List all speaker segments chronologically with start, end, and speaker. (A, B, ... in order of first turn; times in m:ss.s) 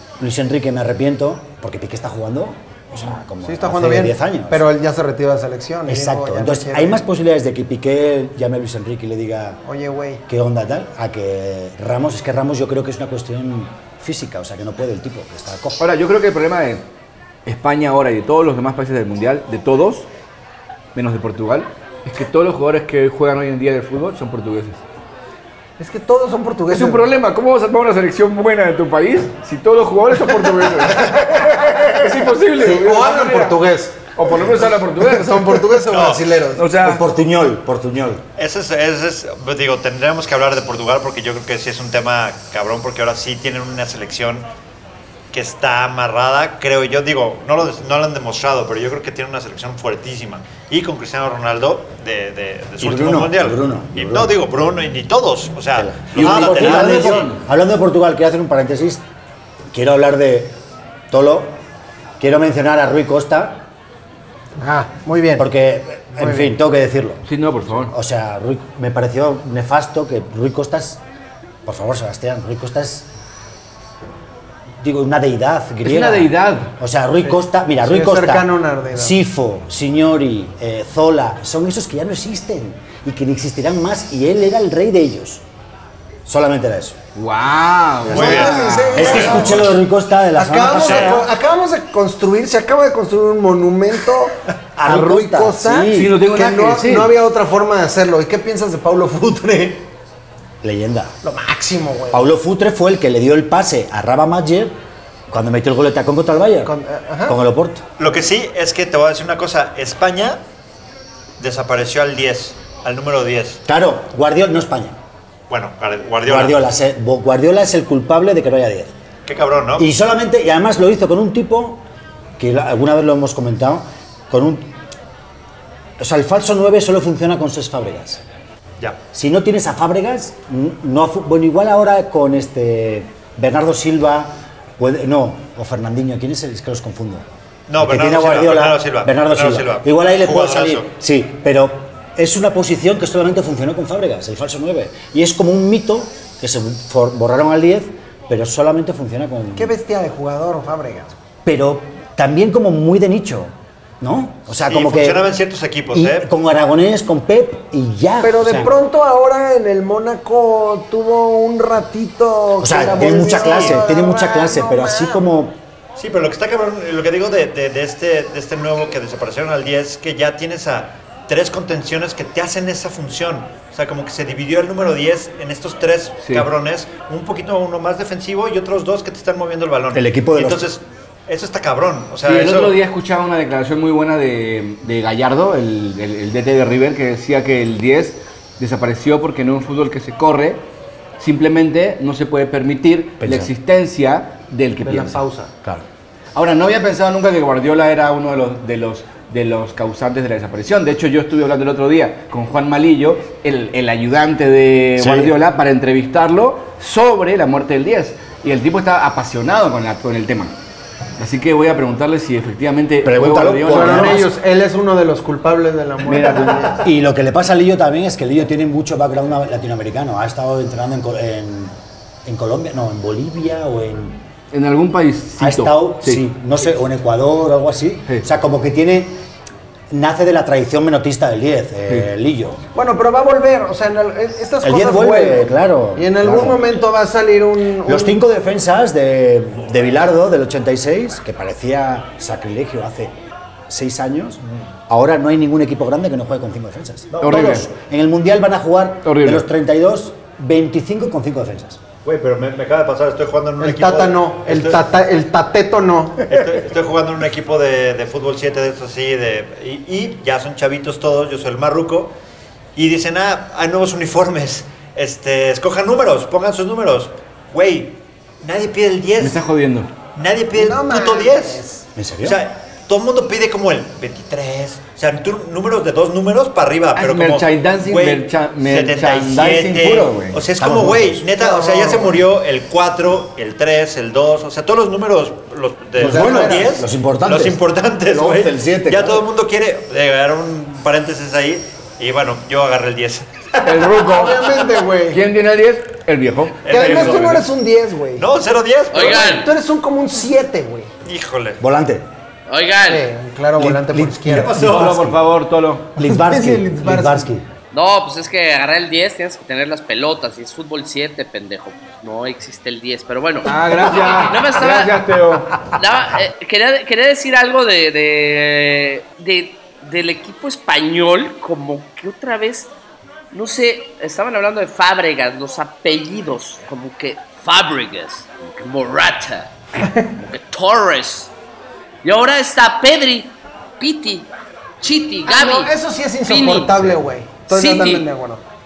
0:00.2-0:04.6 A
0:03.4-0:07.0 B
0:05.9-0:09.6 A
0:09.6-0:10.2 B
0:10.3-0:15.8 A
0:15.8-0:16.8 C
0:17.4-0:20.1 C
0:21.0-0:24.8 C
0:25.8-0:27.0 B
0:26.7-0:33.6 C
0:32.6-0:36.7 B
0:34.1-0:35.7 C
0:35.9-0:36.3 D
0:36.6-0:37.0 C
0:36.8-0:38.2 A
0:38.4-0:44.5 D
0:45.3-0:57.3 D
0:52.8-0:54.4 A
0:55.8-0:59.0 A
0:56.1-0:57.4 C
0:59.7-1:00.6 A
1:01.1-1:01.6 A
1:02.2-1:03.7 A
1:04.6-1:05.5 B
1:05.4-1:07.2 A
1:06.2-1:06.5 B
1:07.2-1:07.9 C
1:07.8-1:11.0 A
1:11.7-1:13.1 A
1:14.8-1:25.4 A
1:15.8-1:16.7 C
1:17.2-1:19.2 B
1:26.3-1:27.0 A
1:27.2-1:29.4 C
1:28.1-1:29.8 B
1:28.1-1:29.6 D
1:28.9-1:31.3 A
1:30.4-1:39.9 B
1:30.8-1:31.2 D
1:34.8-1:36.1 A
1:35.9-1:37.1 C
1:40.6-1:41.2 A
1:41.2-1:42.3 B
1:42.1-1:44.8 A
1:45.3-1:46.7 A
1:46.6-1:47.4 B
1:47.3-1:47.9 A
1:48.0-1:50.4 D
1:51.4-1:53.6 D
1:53.7-1:55.0 A
1:55.5-1:56.6 D
1:56.2-1:58.9 A
1:59.3-1:59.9 D
1:59.8-2:01.8 A
2:02.4-2:04.7 A
2:06.0-2:08.2 A
2:09.1-2:17.3 A
2:17.7-2:20.9 D
2:17.8-2:29.7 A
2:29.6-2:31.2 B
2:31.4-2:35.3 A
2:34.6-2:36.3 D
2:35.9-2:38.8 A
2:38.2-2:45.2 B
2:42.6-2:45.6 A
2:43.2-2:43.8 D
2:46.0-3:02.8 D
2:56.2-2:56.5 C
2:59.9-3:00.7 A
3:02.2-3:10.6 C
3:11.2-3:15.2 C
3:13.2-3:13.5 A
3:14.8-3:15.5 B
3:16.3-3:30.5 C
3:25.0-3:25.3 A
3:31.2-3:34.3 C
3:33.0-3:34.3 A
3:33.7-3:36.8 B
3:36.1-3:36.8 C
3:36.8-3:41.7 A
3:42.2-3:44.2 A
3:44.5-3:46.3 C
3:45.4-3:49.2 A
3:49.9-3:52.6 A
3:52.8-3:58.2 B
3:54.6-3:56.6 A
3:57.8-4:03.2 A
4:03.7-4:11.8 A
4:07.2-4:07.4 D
4:07.2-4:07.7 C
4:09.0-4:09.5 C
4:12.0-4:14.8 D
4:13.6-4:16.3 B
4:16.3-4:22.2 D
4:22.8-4:29.4 D
4:29.2-4:29.9 C
4:30.2-4:31.6 D
4:30.5-4:31.8 B
4:32.0-4:32.4 A
4:32.2-4:53.8 D
4:37.0-4:40.4 C
4:40.6-4:41.2 A
4:41.4-4:42.2 B
4:46.0-4:46.7 B
4:46.0-4:49.2 A
4:53.6-4:57.5 C
4:53.9-4:55.2 B
4:56.6-4:57.4 D
4:56.7-4:58.3 B
4:58.2-4:59.5 D
4:58.9-4:59.5 E
4:59.0-5:00.9 B
5:01.0-5:01.6 D
5:01.6-5:02.1 A
5:02.5-5:03.1 E
5:02.9-5:04.7 B
5:03.6-5:05.2 A
5:04.4-5:04.9 D
5:04.5-5:05.9 C
5:06.0-5:07.5 A
5:06.0-5:07.3 B
5:07.7-5:15.1 E
5:13.5-5:15.6 C
5:15.7-5:22.7 E
5:23.3-5:31.3 E
5:29.8-5:30.1 B
5:32.0-5:34.3 E
5:34.8-5:35.7 E
5:35.3-5:38.4 B
5:36.2-5:36.8 E
5:37.5-5:38.1 E